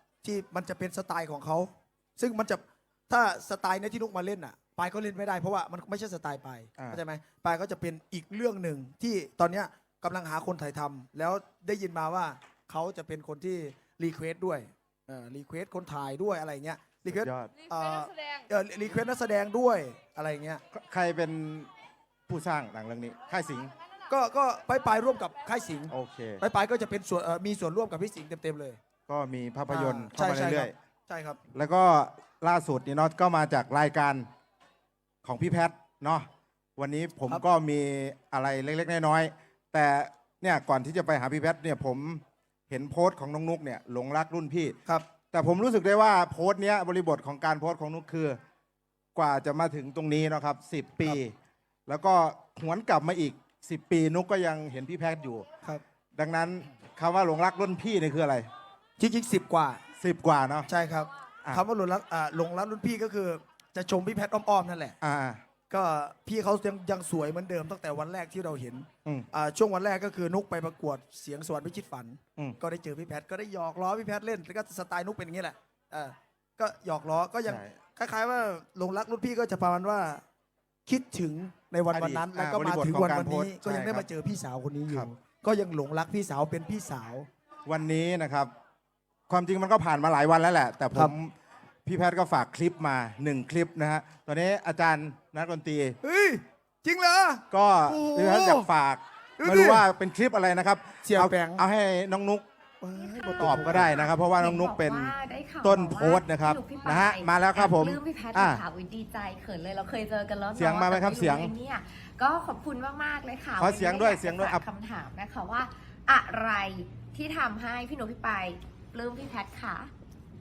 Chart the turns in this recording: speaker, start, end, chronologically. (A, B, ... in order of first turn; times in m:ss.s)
0:00.2-0:20.6 A
0:06.8-0:07.0 B
0:17.1-0:17.5 B
0:20.7-0:21.7 B
0:22.3-0:23.7 B
0:24.1-0:28.8 A
0:25.9-0:26.4 B
0:29.1-0:30.7 B
0:29.7-0:31.4 A
0:31.5-0:34.3 B
0:35.2-0:44.8 B
0:45.3-0:48.4 B
0:49.1-0:51.3 B
0:51.9-0:55.4 B
0:56.2-0:58.5 B
0:59.0-0:59.8 A
1:00.0-1:00.7 B
1:00.7-1:05.0 A
1:05.0-1:05.4 B
1:05.7-1:20.2 A
1:17.4-1:17.8 B
1:20.8-1:27.3 A
1:21.9-1:24.1 B
1:27.6-1:28.5 B
1:29.3-1:31.3 B
1:31.8-1:36.0 B
1:36.0-1:38.7 A
1:37.5-1:42.4 B
1:39.4-1:39.8 A
1:41.0-1:41.6 A
1:42.8-1:43.9 A
1:43.4-1:48.6 B
1:43.9-1:59.9 C
1:50.6-1:51.5 B
1:53.6-1:54.6 B